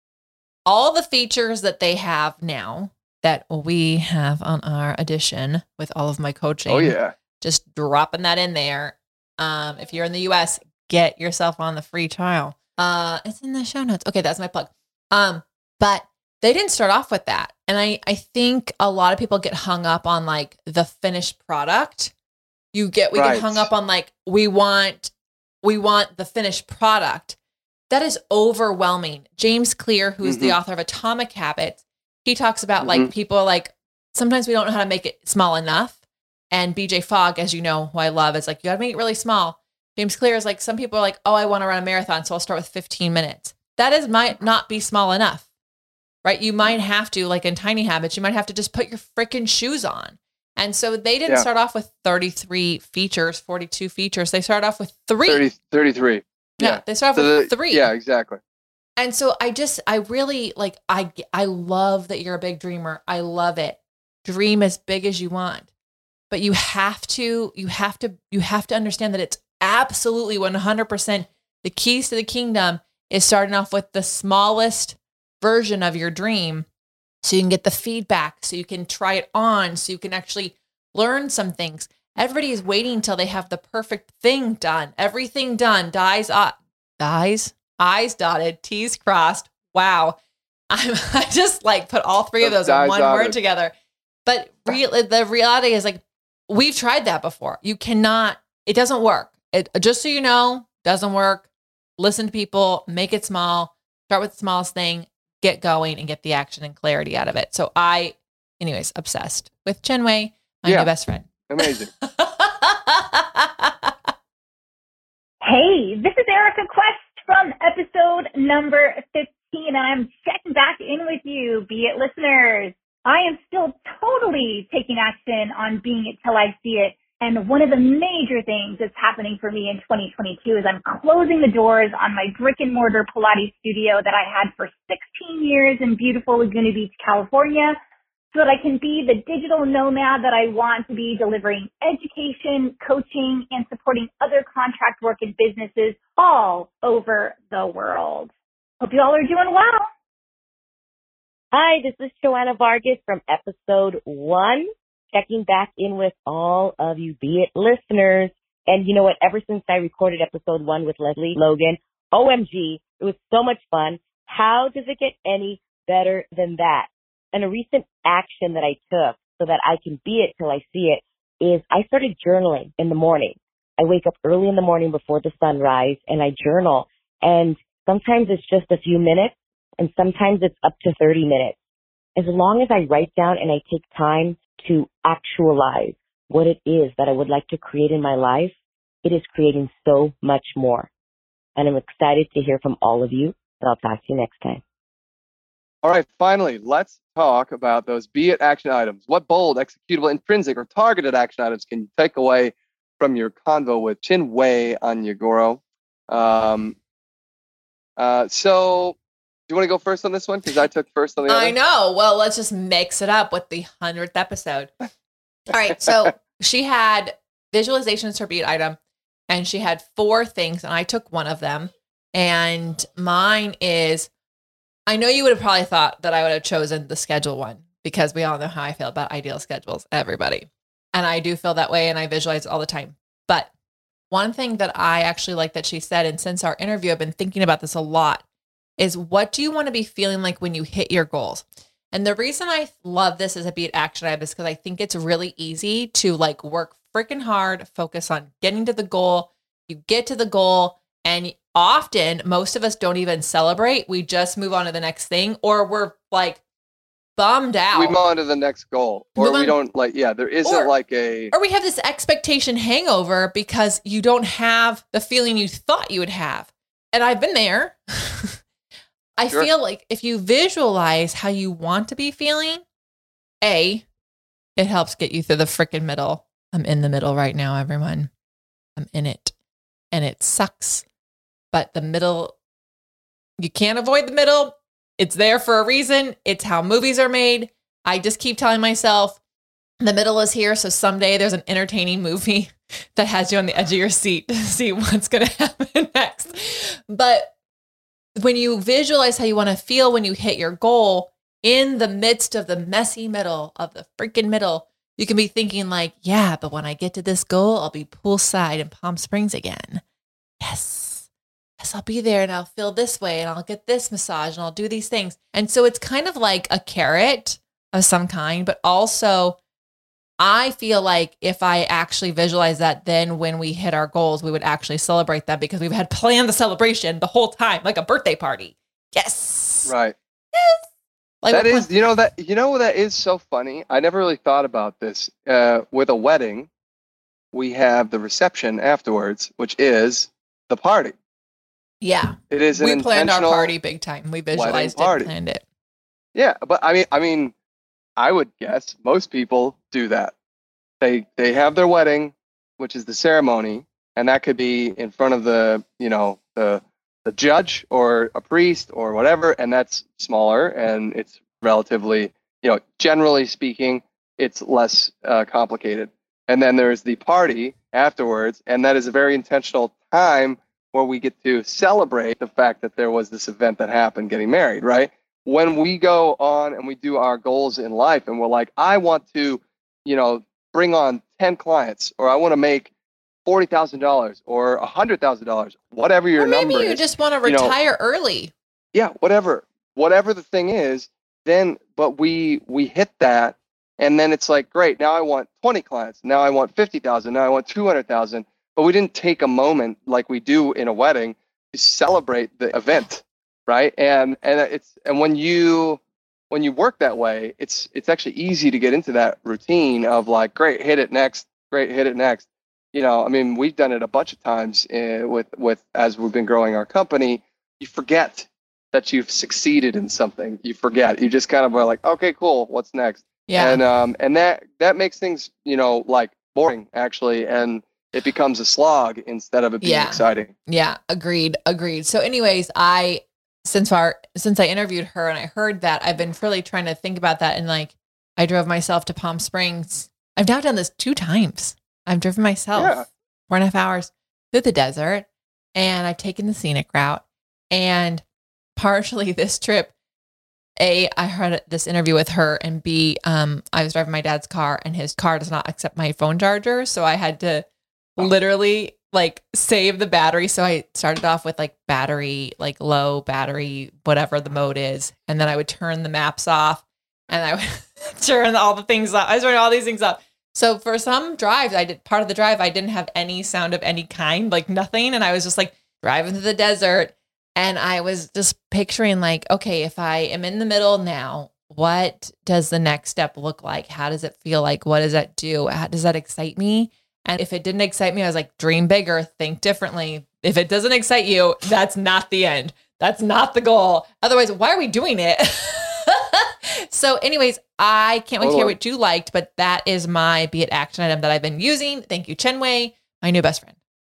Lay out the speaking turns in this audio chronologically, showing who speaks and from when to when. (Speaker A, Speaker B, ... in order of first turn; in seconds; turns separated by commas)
Speaker A: 0.7-22.1, Speaker B: 6.7-7.1, Speaker A: 22.7-25.1, Speaker B: 23.1-23.7, Speaker A: 25.6-27.4, Speaker A: 27.9-36.0, Speaker B: 30.2-30.6, Speaker B: 32.8-33.1, Speaker A: 36.5-45.5, Speaker A: 46.2-55.4, Speaker B: 55.2-58.4, Speaker A: 56.6-57.9, Speaker A: 59.0-65.7, Speaker A: 66.3-76.7, Speaker A: 77.2-90.2, Speaker A: 90.7-93.7, Speaker B: 92.4-93.4, Speaker A: 94.2-101.5, Speaker A: 102.0-113.9, Speaker B: 110.6-110.9, Speaker B: 111.5-111.9, Speaker C: 115.4-137.8, Speaker C: 138.3-149.9, Speaker D: 151.5-181.5, Speaker D: 182.2-190.9, Speaker D: 191.6-194.6, Speaker B: 195.8-206.8, Speaker B: 208.0-209.0, Speaker B: 209.5-211.6, Speaker A: 211.2-214.7, Speaker A: 215.5-218.8, Speaker A: 219.3-224.1, Speaker A: 224.9-233.5, Speaker A: 234.1-238.2, Speaker A: 238.8-256.4, Speaker A: 257.2-258.0, Speaker B: 257.7-261.3, Speaker A: 259.1-259.6, Speaker A: 260.4-260.7, Speaker A: 261.3-268.4, Speaker A: 269.2-272.6, Speaker A: 273.4-273.8, Speaker A: 274.6-278.1, Speaker A: 278.8-279.3, Speaker A: 279.9-280.8, Speaker A: 281.5-282.3, Speaker A: 283.4-289.2, Speaker A: 289.8-297.3, Speaker A: 298.1-309.8, Speaker A: 310.4-311.1, Speaker A: 311.6-319.4, Speaker A: 320.2-329.7, Speaker B: 329.6-329.9, Speaker A: 330.3-330.6, Speaker A: 331.2-331.7, Speaker B: 331.3-336.5, Speaker B: 337.3-340.9, Speaker A: 341.8-345.4, Speaker B: 342.3-343.5, Speaker B: 344.3-345.1, Speaker B: 346.1-347.3, Speaker B: 348.0-350.1, Speaker B: 350.8-382.7, Speaker B: 383.2-387.5, Speaker A: 386.2-388.3, Speaker B: 388.7-430.3, Speaker A: 423.3-423.6, Speaker A: 429.6-448.0, Speaker B: 442.5-442.9, Speaker A: 448.6-449.7, Speaker A: 450.6-457.4, Speaker A: 458.0-503.5, Speaker B: 498.2-498.6